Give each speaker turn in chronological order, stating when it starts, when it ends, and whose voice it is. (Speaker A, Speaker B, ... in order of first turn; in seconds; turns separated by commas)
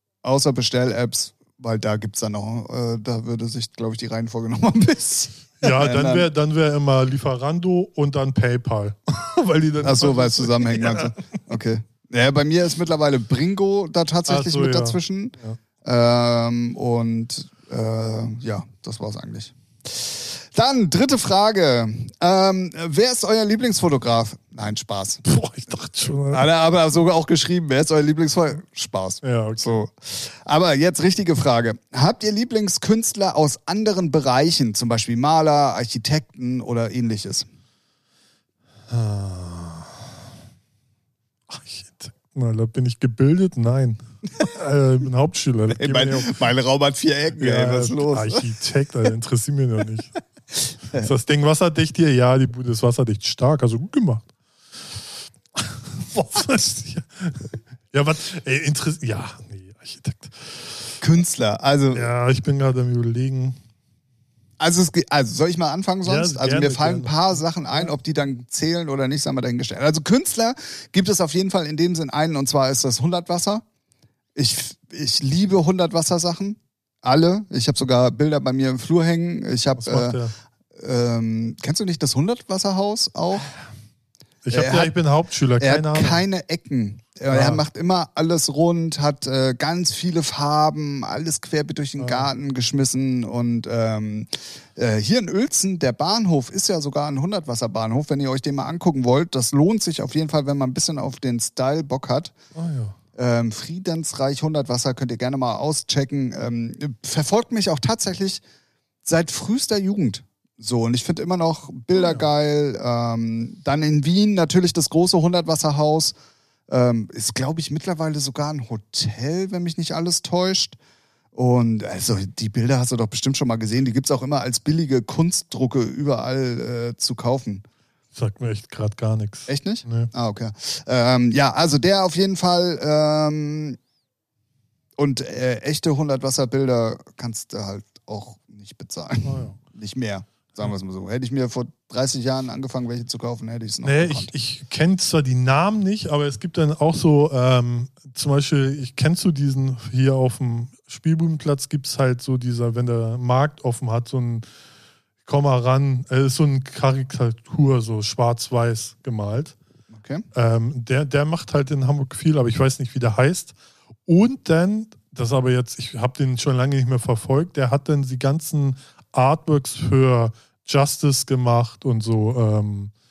Speaker A: 0.2-6.3, Speaker B: 5.6-11.1, Speaker A: 9.8-25.2, Speaker B: 14.3-15.6, Speaker B: 25.2-26.5, Speaker A: 26.3-37.5, Speaker B: 29.2-29.8, Speaker B: 38.9-40.1, Speaker B: 41.5-46.4, Speaker A: 45.7-48.5, Speaker B: 47.4-50.2, Speaker B: 50.9-54.3, Speaker B: 55.5-61.0, Speaker A: 61.0-62.1, Speaker B: 61.9-63.6, Speaker A: 64.6-73.6, Speaker B: 66.0-67.9, Speaker A: 74.4-80.2, Speaker B: 79.8-80.3, Speaker A: 80.8-83.5, Speaker B: 84.4-86.2, Speaker A: 84.5-84.9, Speaker A: 85.6-102.3, Speaker B: 87.3-87.6, Speaker B: 92.0-92.3, Speaker B: 102.5-103.0, Speaker A: 103.1-108.4, Speaker A: 109.0-116.1, Speaker B: 112.0-112.2, Speaker A: 116.7-120.8, Speaker A: 121.3-127.6, Speaker B: 128.1-130.1, Speaker A: 129.5-133.8, Speaker A: 135.0-144.3, Speaker B: 139.2-139.6, Speaker B: 143.8-154.4, Speaker B: 155.2-159.6, Speaker A: 159.9-160.2, Speaker B: 160.3-163.6, Speaker B: 164.1-172.9